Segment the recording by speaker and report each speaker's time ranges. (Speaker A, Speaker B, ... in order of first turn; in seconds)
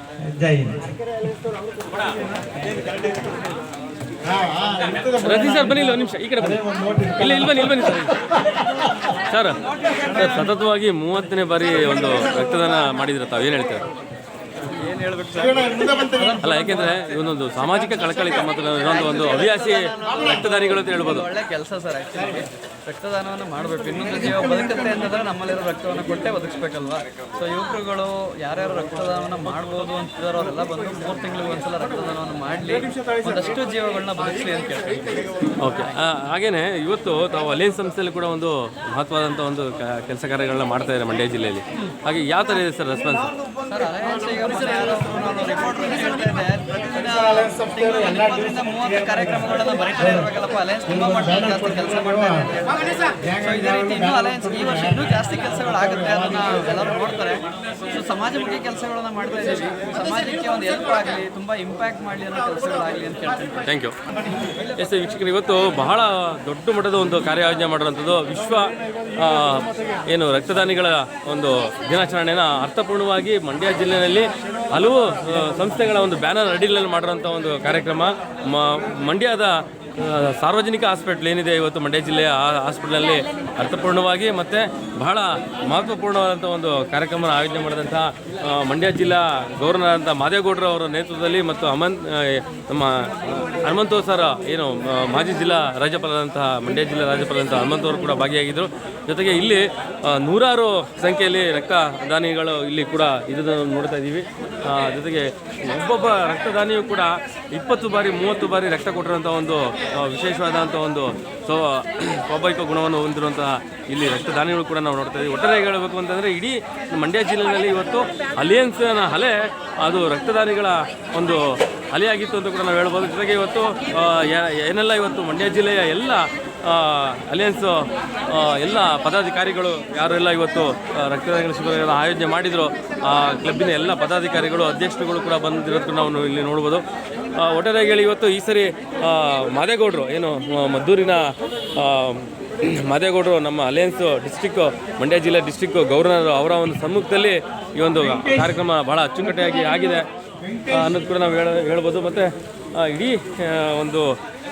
Speaker A: 0.3-0.9, 2.6-3.3, 4.2-9.2, 15.4-16.4, 46.8-50.3, 50.9-52.5, 53.2-56.8, 148.1-148.6, 150.4-150.9
Speaker B: 5.2-6.6, 7.2-8.1, 9.3-13.9, 16.4-21.3, 35.6-43.3, 63.6-64.0, 64.6-150.1, 150.7-154.1
Speaker C: 14.7-17.2, 18.8-35.2, 43.7-63.7